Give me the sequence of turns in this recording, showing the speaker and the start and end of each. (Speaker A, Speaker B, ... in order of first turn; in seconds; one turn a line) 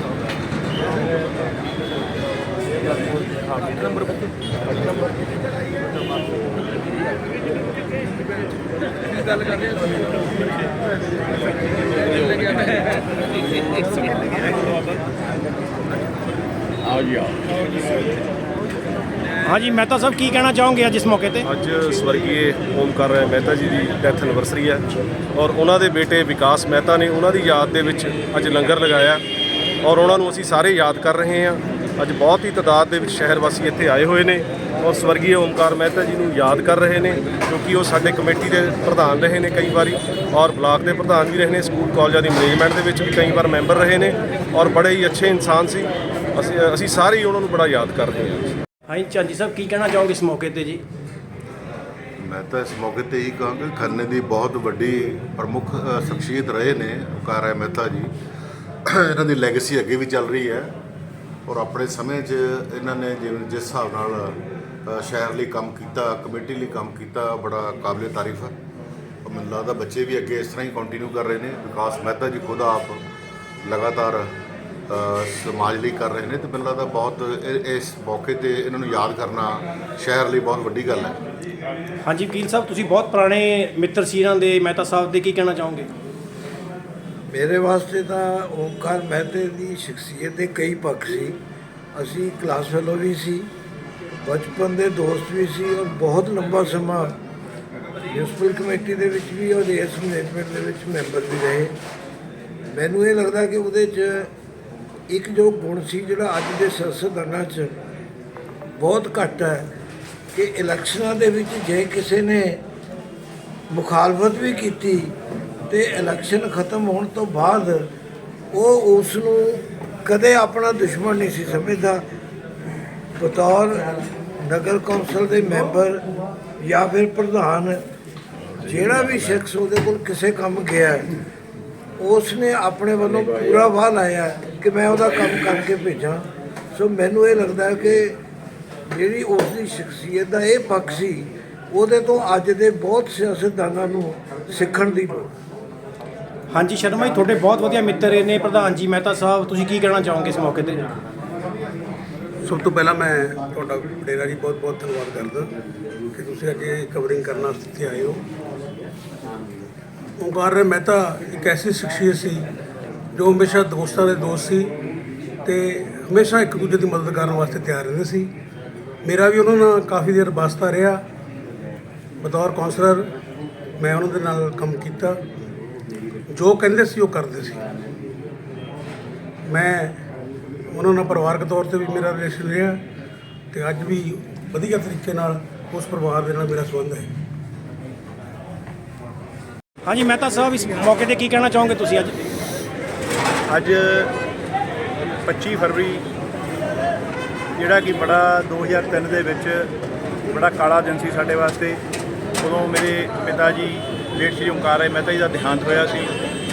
Speaker A: 19.4-21.5
Speaker B: 21.4-29.2
Speaker B: 29.8-48.5
Speaker A: 48.9-50.8
Speaker C: 52.2-58.1
Speaker C: 58.9-60.7
Speaker C: 61.5-68.5
Speaker C: 69.2-73.0
Speaker C: 73.6-74.3
Speaker C: 74.9-81.2
Speaker A: 82.0-85.9
Speaker D: 87.3-91.4
Speaker D: 91.9-93.5
Speaker D: 94.2-97.1
Speaker D: 98.1-101.8
Speaker D: 102.7-104.3
Speaker D: 105.1-107.8
Speaker D: 108.8-109.7
Speaker D: 110.3-112.6
Speaker D: 113.7-115.1
Speaker D: 115.7-117.9
Speaker D: 118.5-122.0
Speaker D: 123.2-126.0
Speaker D: 126.6-127.8
Speaker D: 128.6-131.1
Speaker D: 132.0-138.2
Speaker D: 138.9-145.3
Speaker A: 146.5-150.8
Speaker E: 152.4-155.5
Speaker E: 156.1-158.2
Speaker E: 160.2-162.5
Speaker E: 163.1-164.7
Speaker E: 165.4-168.3
Speaker E: 169.0-171.0
Speaker E: 172.2-173.1
Speaker E: 173.8-175.2
Speaker E: 176.3-177.7
Speaker E: 179.4-180.0
Speaker E: 180.7-182.8
Speaker E: 183.5-187.1
Speaker A: 189.8-192.1
Speaker F: 193.5-194.1
Speaker F: 195.2-196.0
Speaker F: 197.6-199.7
Speaker F: 200.3-201.8
Speaker F: 202.4-206.1